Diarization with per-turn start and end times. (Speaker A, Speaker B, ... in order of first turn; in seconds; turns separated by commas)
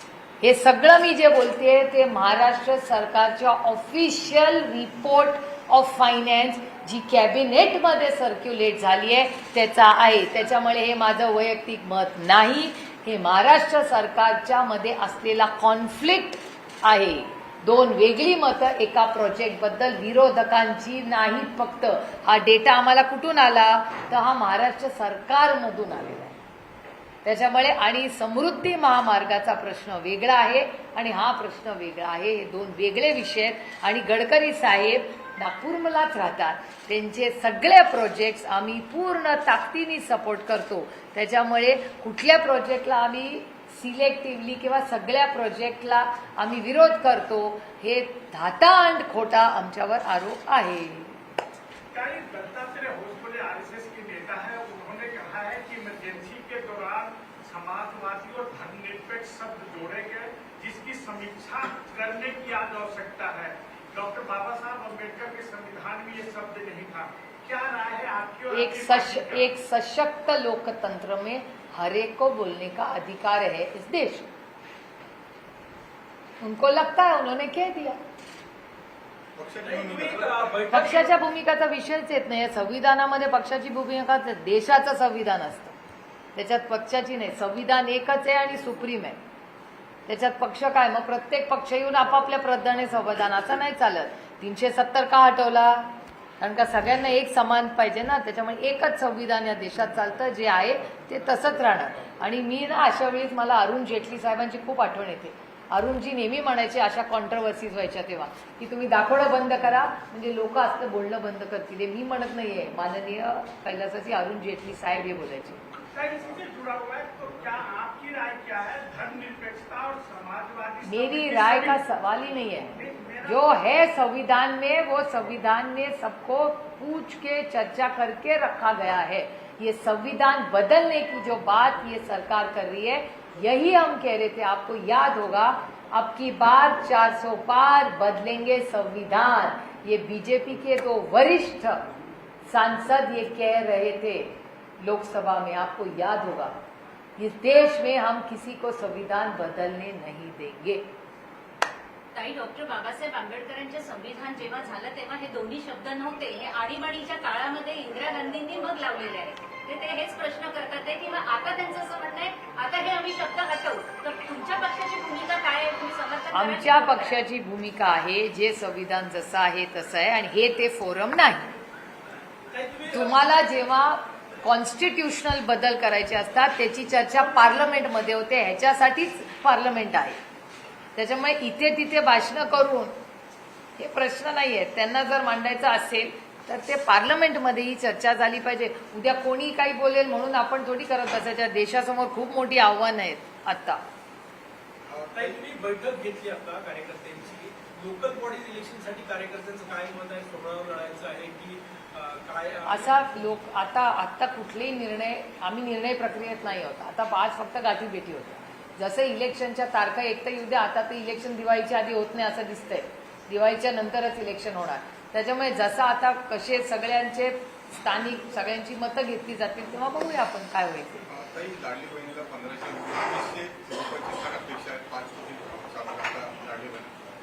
Speaker A: 0.4-26.4, Speaker A: 27.2-51.1, Speaker B: 51.9-69.5, Speaker A: 68.5-74.3, Speaker A: 76.4-78.0, Speaker C: 79.4-80.6, Speaker D: 79.6-81.1, Speaker A: 80.7-85.8, Speaker A: 86.3-89.2, Speaker A: 90.1-115.6, Speaker B: 116.0-121.8, Speaker A: 120.9-122.7, Speaker B: 122.7-123.6, Speaker A: 123.2-141.8, Speaker A: 142.5-146.5, Speaker A: 147.2-150.9, Speaker E: 152.1-167.2, Speaker A: 166.3-171.5, Speaker D: 172.5-173.3, Speaker A: 172.9-180.2, Speaker A: 181.0-182.9, Speaker A: 183.8-193.8, Speaker C: 194.9-195.4, Speaker D: 195.1-202.9, Speaker A: 202.7-221.0, Speaker C: 221.1-226.9